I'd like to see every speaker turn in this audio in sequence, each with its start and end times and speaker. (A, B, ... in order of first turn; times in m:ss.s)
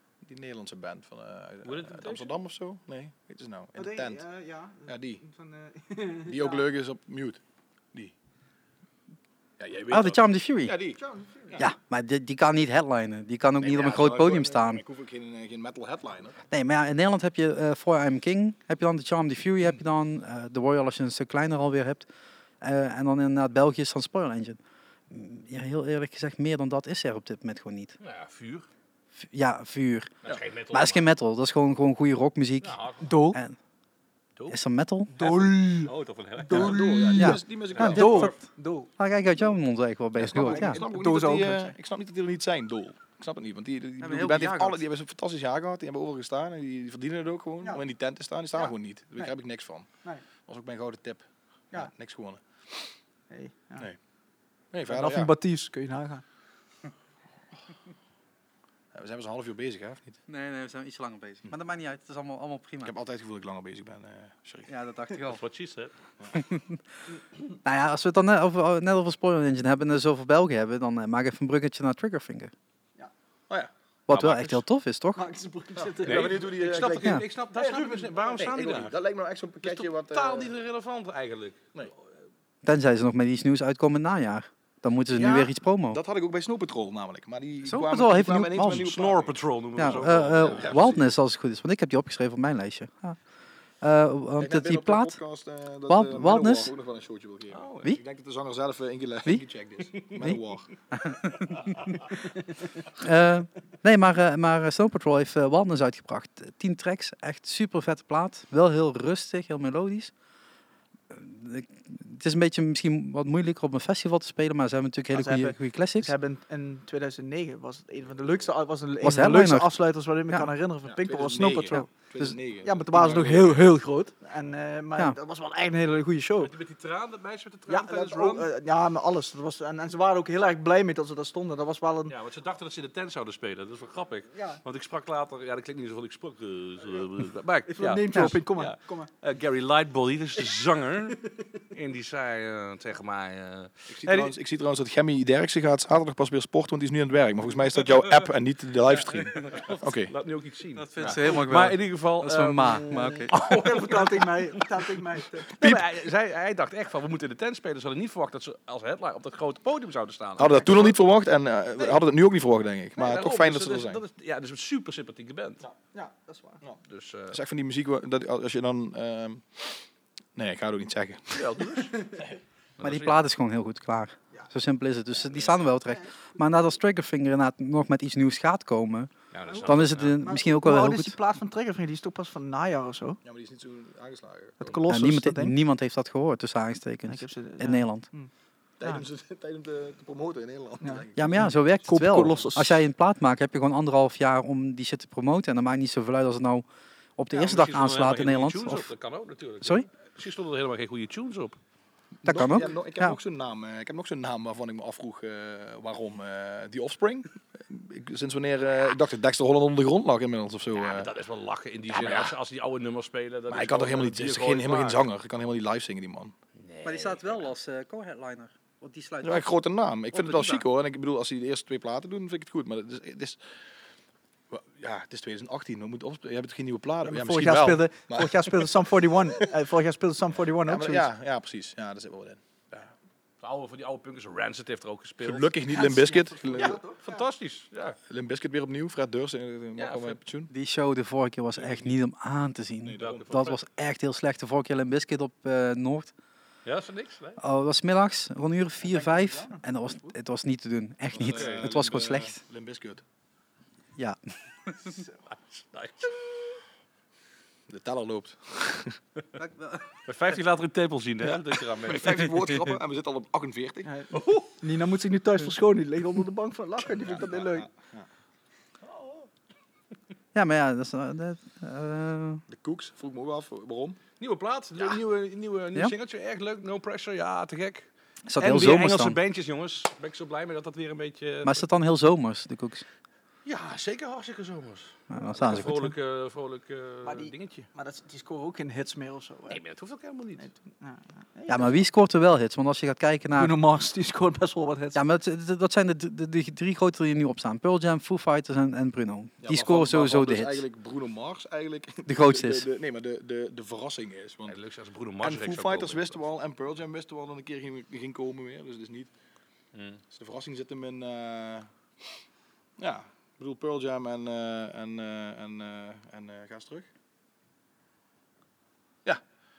0:00.2-0:04.2 A
0:01.6-0:02.3 B
0:03.8-0:06.6 C
0:04.9-0:05.2 A
0:06.2-0:07.4 A
0:09.6-0:11.6 A
0:09.9-0:10.8 D
0:11.0-0:11.6 C
0:11.6-0:14.8 D
0:13.6-0:16.4 A
0:16.5-0:22.0 D
0:22.6-0:24.6 D
0:25.1-0:28.0 D
0:28.0-0:28.7 B
0:29.2-0:30.1 D
0:30.2-0:31.1 B
0:30.7-0:32.8 D
0:32.6-0:33.1 B
0:33.0-0:33.4 C
0:33.3-0:33.6 D
0:34.5-0:35.1 D
0:35.1-0:38.9 C
0:35.2-0:37.0 B
0:36.5-0:38.3 A
0:37.1-0:38.4 D
0:37.8-0:38.2 B
0:39.0-0:40.8 D
0:40.2-0:49.9 A
0:40.3-0:41.7 C
0:44.0-0:44.8 D
0:48.6-0:49.3 C
0:50.4-0:52.9 A
0:53.3-0:53.9 C
0:54.7-0:55.3 A
0:54.9-0:56.2 C
0:58.9-1:00.2 A
1:00.3-1:02.9 D
1:02.8-1:04.7 A
1:04.7-1:05.4 D
1:05.2-1:05.9 B
1:06.3-1:06.8 D
1:07.6-1:12.5 D
1:14.1-1:15.2 D
1:14.1-1:14.6 B
1:15.2-1:16.5 C
1:15.9-1:17.2 A
1:16.0-1:18.9 B
1:17.5-1:18.5 C
1:18.4-1:20.5 A
1:19.6-1:21.8 B
1:22.6-1:26.0 D
1:25.1-1:29.4 A
1:27.6-1:28.9 D
1:28.7-1:31.0 B
1:29.8-1:33.2 D
1:30.4-1:31.1 A
1:33.8-1:35.2 D
1:34.4-1:40.7 A
1:35.9-1:36.7 D
1:37.5-1:37.9 B
1:40.9-1:42.0 D
1:43.0-1:50.1 D
1:51.1-1:56.1 D
1:55.1-2:01.9 C
1:59.0-1:59.7 D
2:00.8-2:03.6 A
2:01.7-2:02.4 D
2:02.6-2:06.5 C
2:03.0-2:03.3 B
2:06.4-2:08.5 B
2:07.7-2:12.1 C
2:12.1-2:24.3 B
2:14.3-2:14.6 C
2:17.7-2:19.1 C
2:23.9-2:30.1 A
2:29.1-2:34.9 B
2:30.8-2:33.3 D
2:33.4-2:35.5 C
2:35.5-2:40.9 B
2:40.4-2:44.0 A
2:43.0-2:45.6 B
2:45.9-2:46.6 C
2:46.9-2:47.4 B
2:47.3-2:49.8 A
2:50.4-2:51.5 A
2:51.3-2:52.1 B
2:52.8-2:53.2 B
2:52.8-2:59.1 D
2:59.3-3:00.2 B
2:59.5-3:03.2 C
2:59.6-3:01.2 D
3:03.2-3:04.8 A
3:04.6-3:05.5 C
3:04.9-3:08.1 D
3:07.1-3:08.3 C
3:08.8-3:11.5 A
3:10.8-3:12.8 C
3:11.2-3:16.6 D
3:17.2-3:18.9 D
3:17.3-3:21.6 B
3:22.2-3:31.1 A
3:22.2-3:23.2 D
3:30.8-3:35.0 B
3:31.9-3:32.3 A
3:33.5-3:36.3 A
3:36.6-3:37.4 B
3:36.8-3:39.4 D
3:39.2-3:43.4 A
3:40.2-3:40.6 B
3:44.5-3:48.8 A
3:47.0-3:51.1 C
3:50.6-3:52.9 A
3:53.4-3:55.5 B
3:55.2-3:56.8 A
3:55.7-3:57.2 C
3:56.5-3:58.0 B
3:58.1-4:00.5 A
3:59.8-4:00.2 B
4:00.5-4:06.1 D
4:02.8-4:03.4 A
4:03.0-4:03.6 B
4:06.6-4:07.4 B
4:07.4-4:12.4 D
4:08.8-4:10.1 C
4:11.1-4:13.0 A
4:11.2-4:11.7 B
4:15.3-4:16.3 B
4:17.7-4:19.0 A
4:19.4-4:19.8 D
4:20.0-4:22.4 B
4:21.7-4:23.9 A
4:23.8-4:27.7 C
4:24.1-4:24.5 B
4:26.8-4:28.1 A
4:28.9-4:29.2 B
4:30.3-4:32.4 D
4:32.5-4:34.0 A
4:34.2-4:37.9 B
4:38.3-4:39.2 D
4:38.4-4:41.6 B
4:41.4-4:42.8 D
4:43.4-4:47.7 B
4:45.1-4:45.9 D
4:47.0-4:49.6 C
4:49.5-4:50.5 B
4:50.8-4:51.8 C
4:51.5-4:53.6 D
4:53.4-4:55.0 C
4:54.9-5:00.6 D
4:59.4-5:04.6 A
5:02.0-5:02.6 D
5:04.5-5:06.2 B
5:05.2-5:09.1 A
5:09.7-5:10.0 B
5:10.1-5:11.7 A
5:12.8-5:16.9 A